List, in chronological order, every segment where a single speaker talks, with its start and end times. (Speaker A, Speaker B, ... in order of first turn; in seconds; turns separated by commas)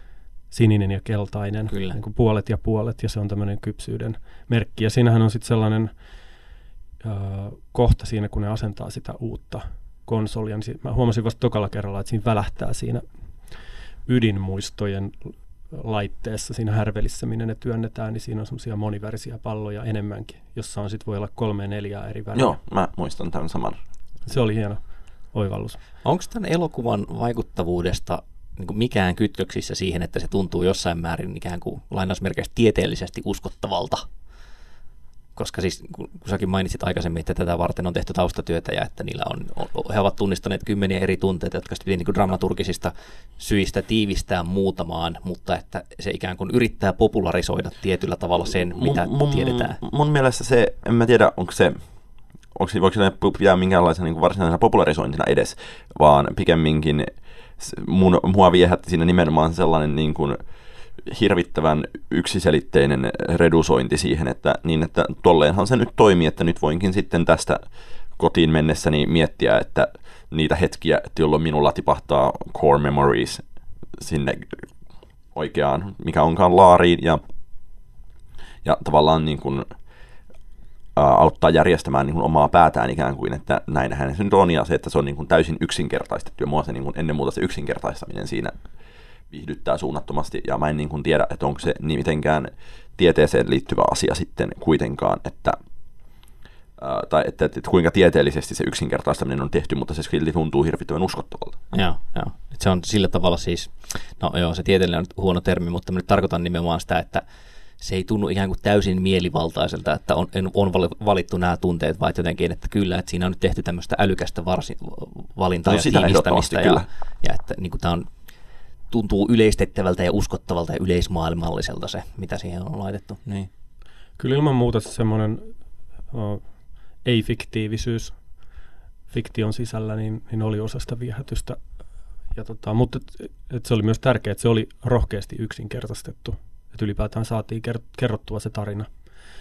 Speaker A: 0.5-5.9, Speaker B: 1.7-2.0, Speaker A: 7.0-13.0, Speaker A: 14.1-22.6, Speaker C: 22.3-23.8, Speaker A: 24.2-25.8, Speaker B: 26.0-34.0, Speaker B: 35.4-49.8, Speaker C: 48.5-51.8, Speaker C: 52.5-60.4, Speaker C: 61.0-67.6, Speaker C: 68.2-73.4, Speaker C: 74.0-74.7, Speaker C: 75.3-77.2, Speaker C: 78.6-79.7, Speaker C: 81.0-88.5, Speaker C: 89.3-95.6, Speaker C: 96.8-101.6, Speaker B: 101.7-107.2, Speaker B: 107.8-118.1, Speaker C: 115.6-116.9, Speaker B: 118.9-123.5, Speaker A: 124.2-125.5, Speaker A: 126.1-126.5, Speaker A: 127.0-128.2, Speaker A: 129.1-131.6, Speaker A: 132.3-138.9